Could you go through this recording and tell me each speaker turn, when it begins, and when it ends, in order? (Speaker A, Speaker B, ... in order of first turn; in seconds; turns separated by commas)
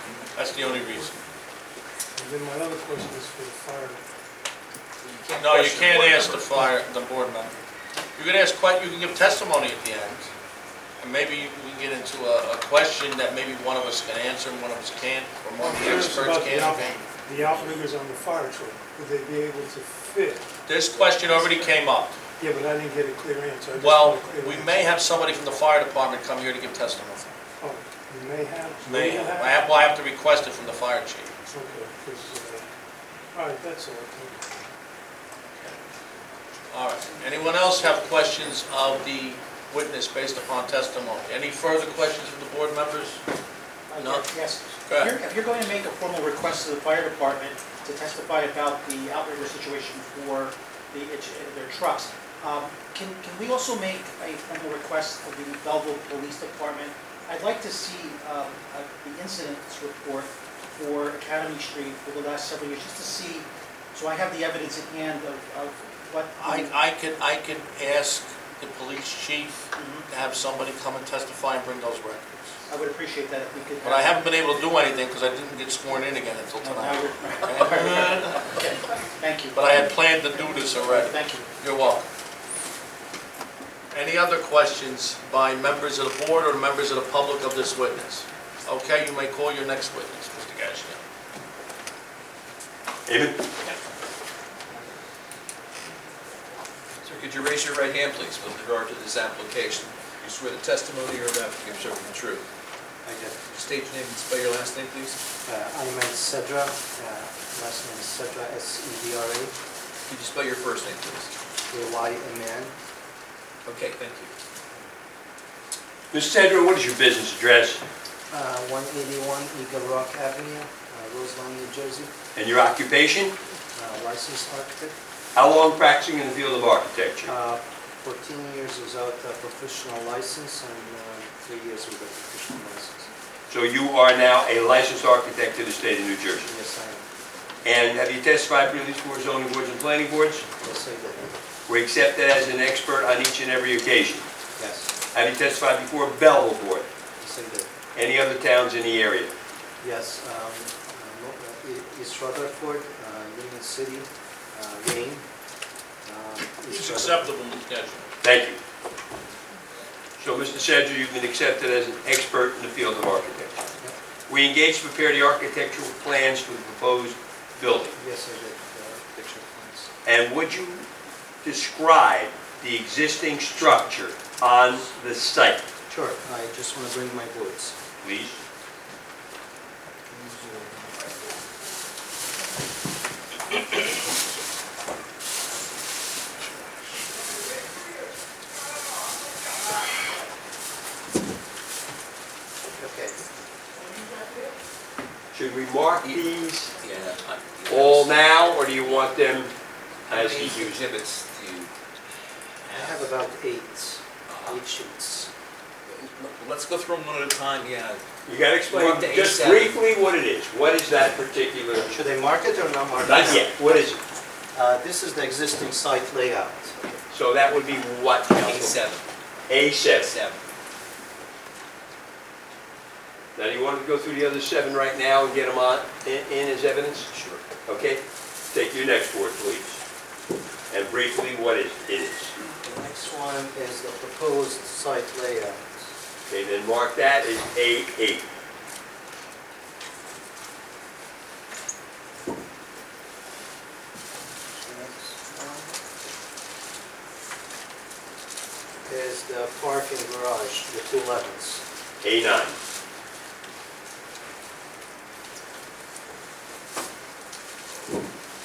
Speaker A: 0.3-1.2, Speaker B: 2.2-4.0, Speaker C: 5.0-6.7, Speaker A: 5.4-7.5, Speaker A: 8.2-10.3, Speaker A: 11.0-17.1, Speaker B: 15.6-20.5, Speaker A: 20.7-22.2, Speaker B: 22.4-24.9, Speaker A: 23.8-27.4, Speaker B: 27.6-29.7, Speaker A: 28.8-31.3, Speaker B: 31.5-32.7, Speaker B: 33.3-34.4, Speaker A: 35.5-35.8, Speaker A: 36.7-43.2, Speaker D: 43.9-66.7, Speaker A: 44.0-44.3, Speaker A: 44.9-45.2, Speaker A: 66.4-72.6, Speaker D: 69.8-70.1, Speaker D: 72.7-74.3, Speaker A: 73.8-78.6, Speaker D: 76.6-81.5, Speaker A: 79.5-82.1, Speaker A: 83.9-91.0, Speaker E: 93.1-93.4, Speaker C: 97.0-102.5, Speaker F: 103.0-103.4, Speaker C: 103.5-105.2, Speaker F: 105.5-109.5, Speaker C: 110.1-111.3, Speaker F: 111.7-112.7, Speaker C: 113.7-114.3, Speaker E: 116.1-117.8, Speaker F: 118.3-122.1, Speaker E: 122.3-123.4, Speaker F: 123.8-125.0, Speaker E: 125.3-127.3, Speaker F: 127.3-133.1, Speaker E: 133.5-136.5, Speaker F: 136.4-137.1, Speaker E: 137.6-140.5, Speaker F: 140.6-141.4, Speaker E: 141.7-144.3, Speaker F: 144.6-144.9, Speaker E: 145.1-146.9, Speaker F: 147.2-147.7, Speaker E: 147.9-149.3, Speaker F: 149.8-155.2, Speaker F: 156.1-157.3, Speaker A: 156.7-158.1, Speaker E: 158.2-158.6, Speaker E: 160.2-163.7, Speaker E: 164.3-168.0, Speaker F: 167.9-169.9, Speaker E: 170.1-170.9, Speaker E: 171.4-175.7, Speaker F: 175.9-177.8, Speaker E: 178.0-178.4, Speaker F: 180.1-181.1, Speaker F: 192.7-193.2, Speaker E: 195.3-196.7, Speaker C: 196.8-198.2, Speaker E: 197.7-199.5, Speaker C: 200.1-201.7, Speaker E: 200.1-200.9, Speaker C: 202.7-203.1, Speaker F: 202.7-205.3, Speaker C: 204.3-204.6, Speaker C: 205.9-208.0, Speaker E: 208.2-211.9, Speaker C: 208.7-209.8, Speaker F: 211.9-213.8, Speaker E: 213.0-214.0, Speaker F: 214.5-216.7, Speaker E: 217.1-218.8, Speaker C: 218.3-219.1, Speaker E: 219.5-220.1, Speaker C: 220.0-220.4, Speaker E: 223.3-227.1, Speaker C: 227.1-227.4, Speaker E: 227.7-229.8, Speaker E: 230.7-232.3, Speaker F: 232.6-235.9, Speaker E: 236.3-238.3, Speaker F: 244.5-245.7, Speaker F: 248.8-251.6, Speaker E: 252.0-252.6